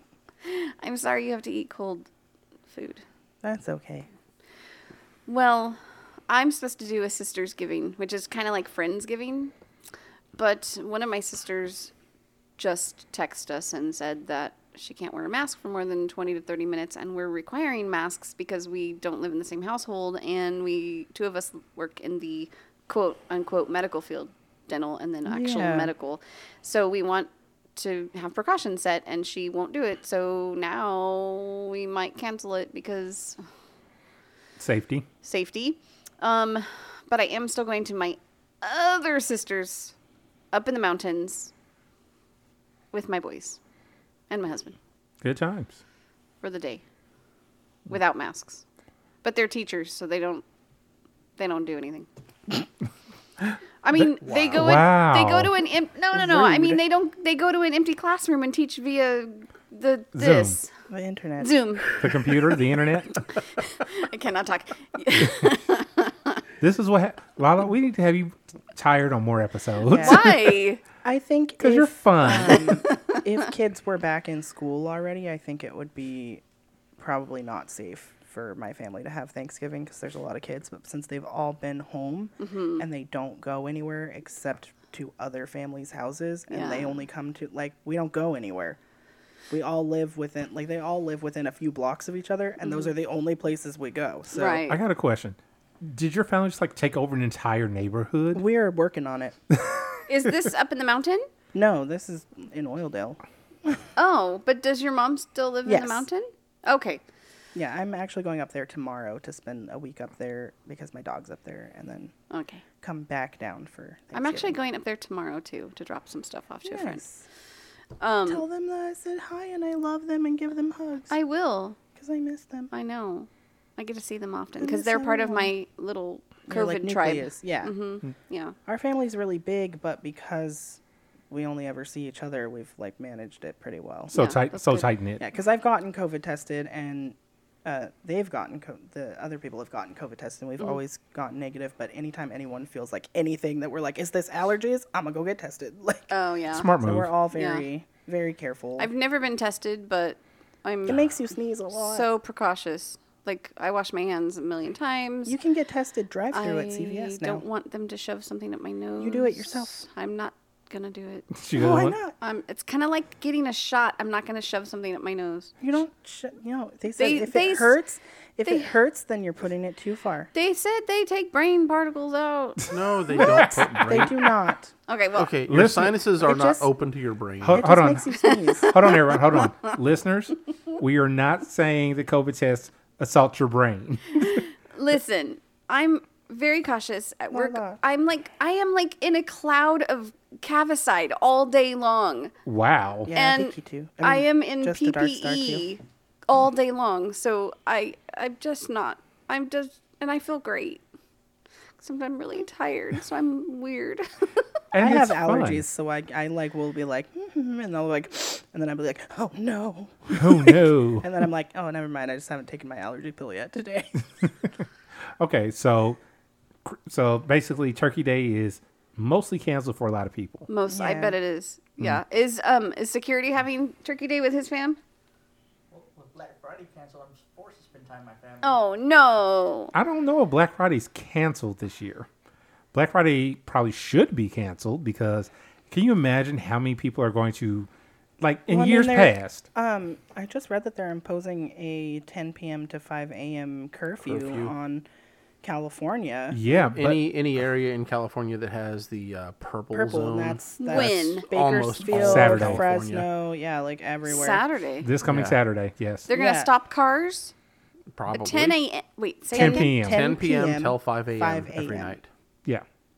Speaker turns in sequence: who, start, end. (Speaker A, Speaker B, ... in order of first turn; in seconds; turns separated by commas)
Speaker A: 0.4-2.1, Speaker A: 2.7-3.0, Speaker B: 3.4-4.1, Speaker A: 5.3-9.5, Speaker A: 10.3-11.9, Speaker A: 12.6-33.4, Speaker B: 25.3-25.9, Speaker C: 34.6-35.0, Speaker A: 35.2-39.9, Speaker A: 40.5-41.5, Speaker A: 42.9-43.6, Speaker A: 44.3-44.8, Speaker C: 45.2-45.8, Speaker A: 46.4-46.8, Speaker A: 47.9-48.6, Speaker A: 49.2-50.4, Speaker A: 51.4-52.1, Speaker C: 53.4-55.5, Speaker A: 53.8-60.7, Speaker D: 54.2-54.7, Speaker B: 56.1-56.8, Speaker C: 60.1-60.6, Speaker B: 60.9-61.9, Speaker A: 61.4-61.9, Speaker C: 62.0-63.2, Speaker A: 63.8-66.3, Speaker C: 66.6-70.3, Speaker B: 69.9-70.5, Speaker A: 69.9-70.8, Speaker B: 71.0-76.4, Speaker C: 71.6-72.7, Speaker A: 72.5-73.2, Speaker B: 77.0-88.8, Speaker A: 82.4-82.8, Speaker A: 86.5-87.0, Speaker B: 89.5-94.6, Speaker A: 92.6-92.9, Speaker A: 94.3-94.8, Speaker C: 94.7-98.4, Speaker B: 98.3-99.4, Speaker C: 99.6-99.9, Speaker A: 100.1-101.2, Speaker B: 101.5-103.8, Speaker A: 104.0-107.0, Speaker B: 105.7-106.0, Speaker B: 107.5-112.1, Speaker A: 112.3-112.6, Speaker B: 112.8-114.6, Speaker A: 114.1-117.0, Speaker B: 116.6-117.2, Speaker A: 118.0-118.4, Speaker B: 118.3-121.1, Speaker A: 121.1-121.8, Speaker B: 122.0-122.7, Speaker A: 122.7-128.5, Speaker B: 124.6-125.5, Speaker B: 126.5-127.7, Speaker B: 128.7-130.8, Speaker B: 131.3-134.1, Speaker A: 134.1-134.9, Speaker C: 134.1-135.2, Speaker B: 135.2-146.1, Speaker A: 146.1-146.7, Speaker C: 146.5-147.1, Speaker B: 146.8-148.9, Speaker A: 147.3-147.6, Speaker A: 148.8-151.0, Speaker B: 150.9-152.1, Speaker A: 151.7-155.3, Speaker B: 155.2-157.4, Speaker A: 156.3-161.3, Speaker B: 159.0-159.8, Speaker C: 161.3-162.0, Speaker B: 161.5-162.1, Speaker A: 162.2-165.5, Speaker B: 165.6-170.3, Speaker A: 166.9-167.8, Speaker A: 170.3-172.6, Speaker D: 172.7-174.1, Speaker B: 173.2-174.7, Speaker A: 174.9-175.3, Speaker D: 175.2-177.6, Speaker C: 175.5-175.9, Speaker B: 176.2-176.7, Speaker C: 177.4-178.1, Speaker B: 177.5-179.1, Speaker C: 178.6-184.4, Speaker A: 184.3-192.3, Speaker B: 187.3-187.8, Speaker C: 192.4-193.1, Speaker B: 193.1-195.7, Speaker A: 193.1-200.8, Speaker A: 201.8-204.3, Speaker C: 204.7-205.6, Speaker B: 204.8-213.9, Speaker C: 210.2-211.1, Speaker C: 215.2-216.0, Speaker C: 216.6-220.5, Speaker A: 220.5-224.8, Speaker B: 220.7-221.2, Speaker E: 225.7-228.6, Speaker A: 228.4-229.7, Speaker C: 229.7-232.1, Speaker C: 232.7-237.7, Speaker C: 238.2-239.4, Speaker B: 238.5-244.8, Speaker D: 244.0-244.5, Speaker B: 245.4-246.4, Speaker C: 246.3-247.0, Speaker D: 246.7-253.1, Speaker B: 249.7-254.4, Speaker A: 250.6-251.3, Speaker C: 251.9-252.6, Speaker A: 254.1-254.9, Speaker C: 254.8-256.1, Speaker D: 255.0-255.4, Speaker A: 256.1-257.3, Speaker B: 256.1-256.5, Speaker D: 257.9-258.6, Speaker A: 258.1-259.7, Speaker C: 259.3-260.0, Speaker B: 259.3-262.0, Speaker D: 259.8-262.1